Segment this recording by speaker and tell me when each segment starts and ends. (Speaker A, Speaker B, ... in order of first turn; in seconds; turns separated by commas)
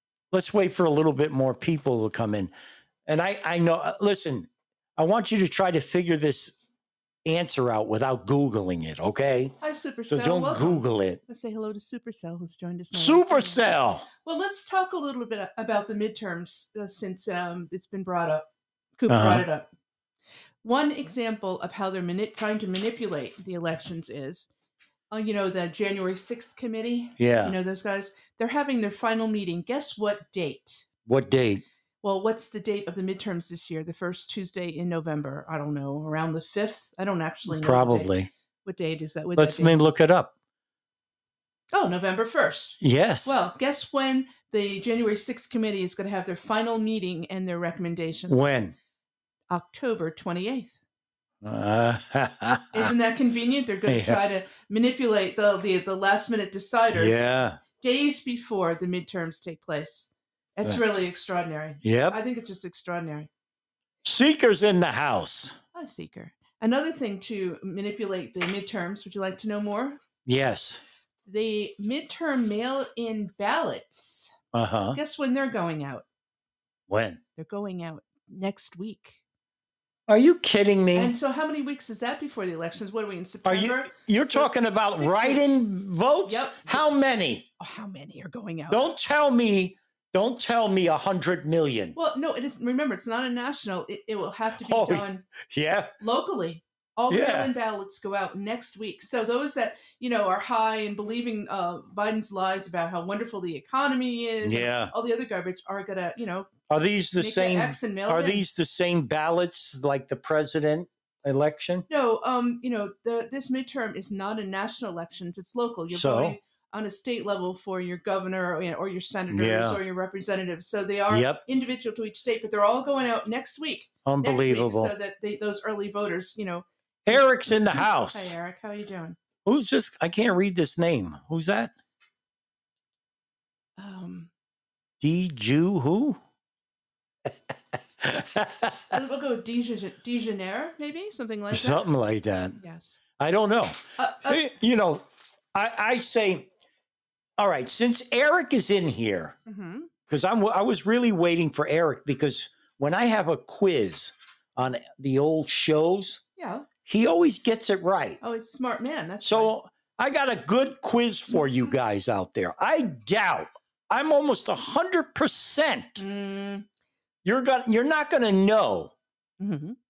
Speaker A: 0.3-2.5, Speaker A: 3.1-6.6, Speaker A: 7.2-9.5, Speaker B: 9.6-13.6, Speaker A: 10.1-11.2, Speaker A: 12.9-14.1, Speaker B: 14.2-18.4, Speaker B: 19.0-19.7, Speaker A: 19.1-19.4, Speaker B: 20.6-24.5, Speaker B: 25.1-30.9, Speaker A: 27.2-27.6, Speaker A: 31.1-31.6, Speaker B: 32.0-38.1, Speaker A: 37.5-38.3, Speaker B: 38.6-39.8, Speaker A: 39.4-40.3, Speaker B: 41.7-48.5, Speaker A: 42.8-43.4, Speaker A: 48.3-48.8, Speaker B: 49.5-50.7, Speaker A: 51.4-52.9, Speaker B: 52.7-57.2, Speaker A: 53.9-54.2, Speaker A: 56.9-57.6, Speaker B: 57.8-63.3, Speaker A: 61.8-62.2, Speaker A: 64.0-65.6, Speaker B: 65.7-70.0, Speaker A: 70.2-70.8, Speaker B: 71.2-74.3, Speaker A: 74.5-75.0, Speaker B: 74.9-76.0, Speaker A: 76.9-77.2, Speaker B: 77.4-79.2, Speaker A: 80.1-81.1, Speaker B: 80.9-85.7, Speaker A: 83.4-87.5, Speaker B: 86.2-86.8, Speaker B: 87.6-88.8, Speaker A: 88.7-91.9, Speaker B: 91.9-95.3, Speaker A: 94.6-95.9, Speaker B: 96.0-106.5, Speaker A: 97.1-97.5, Speaker A: 104.4-104.9, Speaker A: 106.7-111.8, Speaker B: 107.2-108.4, Speaker B: 111.9-129.2, Speaker A: 115.9-116.4, Speaker A: 119.3-119.8, Speaker A: 121.1-121.4, Speaker A: 124.0-124.9, Speaker A: 127.1-128.3, Speaker A: 129.4-131.7, Speaker B: 133.8-134.3, Speaker A: 135.0-136.2, Speaker A: 138.0-139.0, Speaker B: 138.9-141.8, Speaker A: 141.5-142.6, Speaker B: 142.6-143.0, Speaker A: 143.2-146.5, Speaker B: 144.0-144.4, Speaker A: 147.4-149.3, Speaker B: 149.5-149.9, Speaker A: 150.1-156.2, Speaker B: 156.4-156.7, Speaker A: 156.8-158.2, Speaker B: 158.2-159.5, Speaker A: 159.2-166.0, Speaker B: 166.0-166.7, Speaker A: 167.2-168.9, Speaker B: 169.4-169.8